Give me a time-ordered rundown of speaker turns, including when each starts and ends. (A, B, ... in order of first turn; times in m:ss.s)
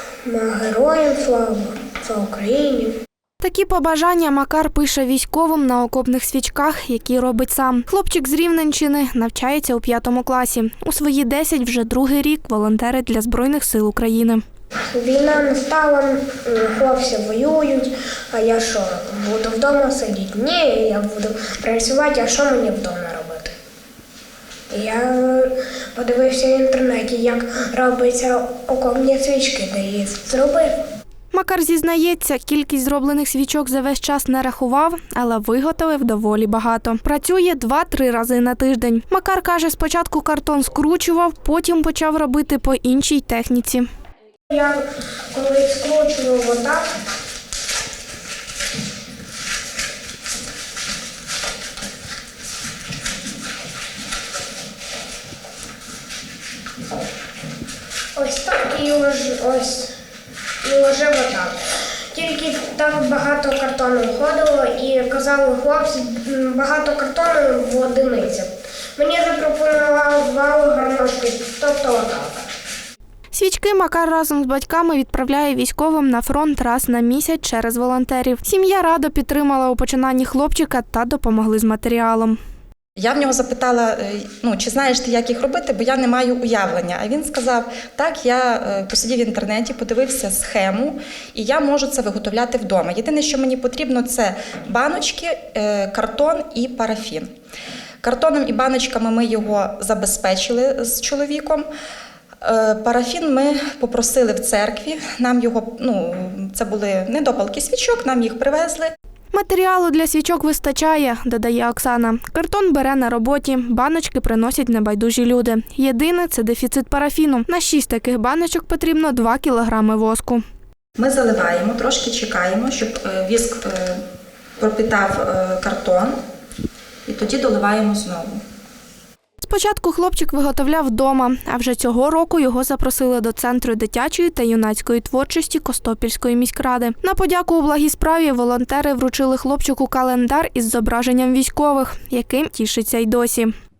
0:00.2-0:02.9 A
0:03.4-0:14.4 B
0:14.9-0:23.5 A
0:24.7-0:30.7 A
0:31.3-0:43.9 B
0:44.5-0:44.8 A
0:45.3-0:46.9 A
0:58.2-0:59.9 A
1:00.6-1:12.4 A
1:13.3-1:22.4 B
1:23.0-1:37.3 C
1:38.0-1:41.7 C
1:42.4-1:48.9 C
1:49.3-2:00.4 B
2:01.0-2:04.0 C
2:04.6-2:06.2 C
2:07.0-2:08.4 C
2:09.4-2:23.5 B